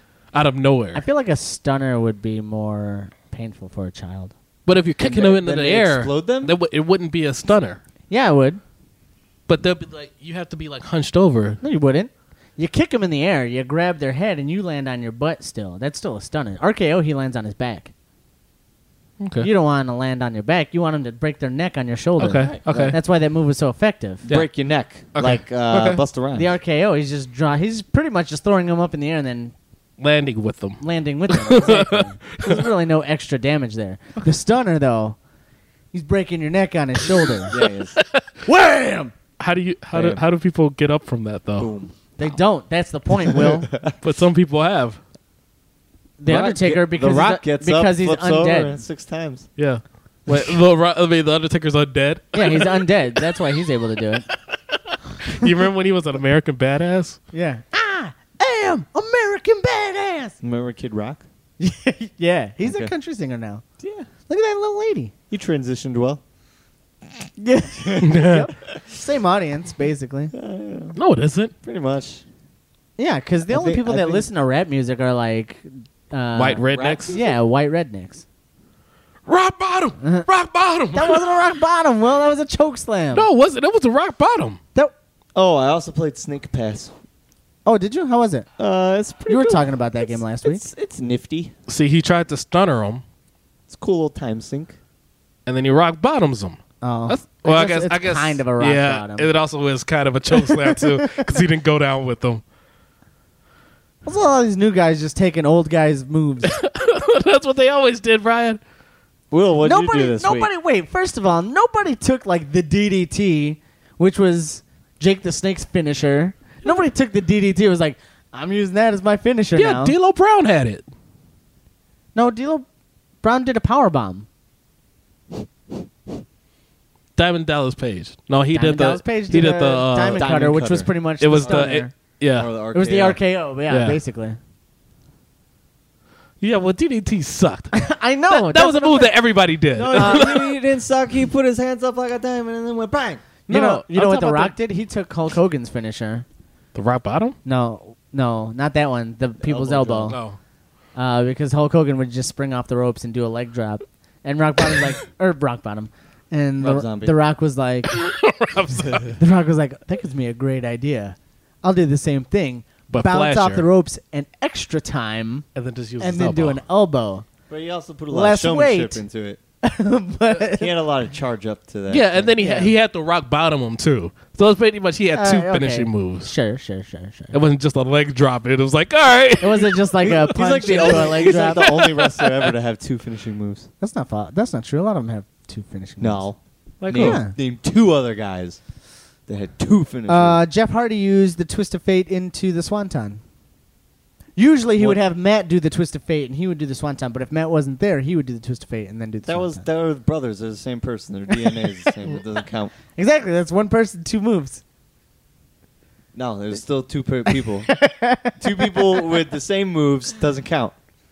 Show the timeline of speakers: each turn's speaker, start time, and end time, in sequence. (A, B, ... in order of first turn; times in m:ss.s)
0:00.3-0:01.0 A
0:00.9-0:04.3 B
0:04.7-0:07.8 A
0:05.0-0:06.6 C
0:08.1-0:08.6 B
0:09.5-0:11.6 A
0:11.6-0:17.9 B
0:19.2-0:19.5 A
0:19.4-0:24.3 B
0:22.2-0:23.0 A
0:22.2-0:23.0 C
0:24.3-0:26.6 C
0:25.2-0:26.0 A
0:26.4-0:29.5 B
0:30.0-0:32.6 A
0:30.8-0:35.2 B
0:35.9-0:37.5 B
0:37.5-0:38.0 C
0:37.6-0:38.3 A
0:38.4-0:39.2 B
0:39.4-0:41.7 A
0:39.9-0:40.2 C
0:41.6-0:42.4 C
0:42.2-0:43.7 B
0:43.3-0:44.0 C
0:44.0-0:45.0 A
0:46.2-0:48.8 B
0:46.3-0:49.5 C
0:49.6-0:53.4 A
0:52.3-0:54.3 B
0:54.9-0:57.2 A
0:57.3-1:00.4 B
1:00.4-1:01.2 C
1:01.6-1:03.6 B
1:02.6-1:02.9 C
1:03.8-1:04.1 C
1:04.3-1:05.1 B
1:05.3-1:06.2 C
1:07.4-1:10.3 B
1:08.0-1:08.5 A
1:10.3-1:11.0 C
1:11.0-1:11.5 A
1:11.6-1:12.2 C
1:13.0-1:18.2 B
1:13.5-1:14.3 C
1:16.4-1:17.1 A
1:16.7-1:17.4 C
1:19.3-1:21.2 A
1:20.0-1:20.3 B
1:20.9-1:23.3 B
1:23.1-1:24.6 A
1:25.4-1:26.9 C
1:27.6-1:28.5 B
1:28.6-1:29.6 C
1:29.3-1:30.6 B
1:30.4-1:31.5 C
1:31.7-1:33.0 A
1:33.7-1:34.8 C
1:35.5-1:42.4 A
1:36.8-1:39.3 B
1:40.3-1:41.4 B
1:44.0-1:46.5 B
1:46.5-1:48.6 A
1:49.3-1:50.5 C
1:49.6-2:00.0 B
1:59.6-2:00.8 A
2:02.2-2:02.7 B
2:03.2-2:04.3 B
2:07.2-2:10.3 A
2:08.5-2:11.9 B
2:10.1-2:11.8 C
2:11.2-2:12.5 A
2:12.3-2:13.2 C
2:12.7-2:14.4 B
2:13.7-2:14.0 A
2:16.4-2:20.5 A
2:17.7-2:19.1 B
2:19.7-2:23.2 C
2:19.9-2:20.4 B
2:23.5-2:24.6 A
2:23.5-2:26.2 B
2:26.7-2:27.4 A
2:27.4-2:30.2 B
2:29.4-2:30.2 C
2:30.1-2:30.4 A
2:31.0-2:37.9 B
2:36.6-2:37.2 C
2:37.9-2:39.2 A
2:39.2-2:45.5 B
2:42.9-2:43.7 A
2:45.6-2:46.6 A
2:46.0-2:47.3 B
2:47.5-2:49.4 C
2:48.1-2:49.0 B
2:49.6-2:50.7 B
2:50.5-2:52.4 C
2:51.9-2:56.3 A
2:52.4-2:52.7 B
2:55.2-2:57.4 B
2:57.3-3:02.5 A
2:59.4-3:01.7 B
3:00.2-3:03.7 C
3:03.8-3:06.3 B
3:06.0-3:08.6 C
3:06.8-3:07.2 A
3:06.9-3:07.3 B
3:09.3-3:10.4 C
3:10.1-3:13.2 B
3:14.4-3:19.6 B
3:19.3-3:22.8 C
3:23.0-3:24.6 B
3:26.1-3:27.7 C
3:27.3-3:29.0 B
3:28.4-3:30.8 C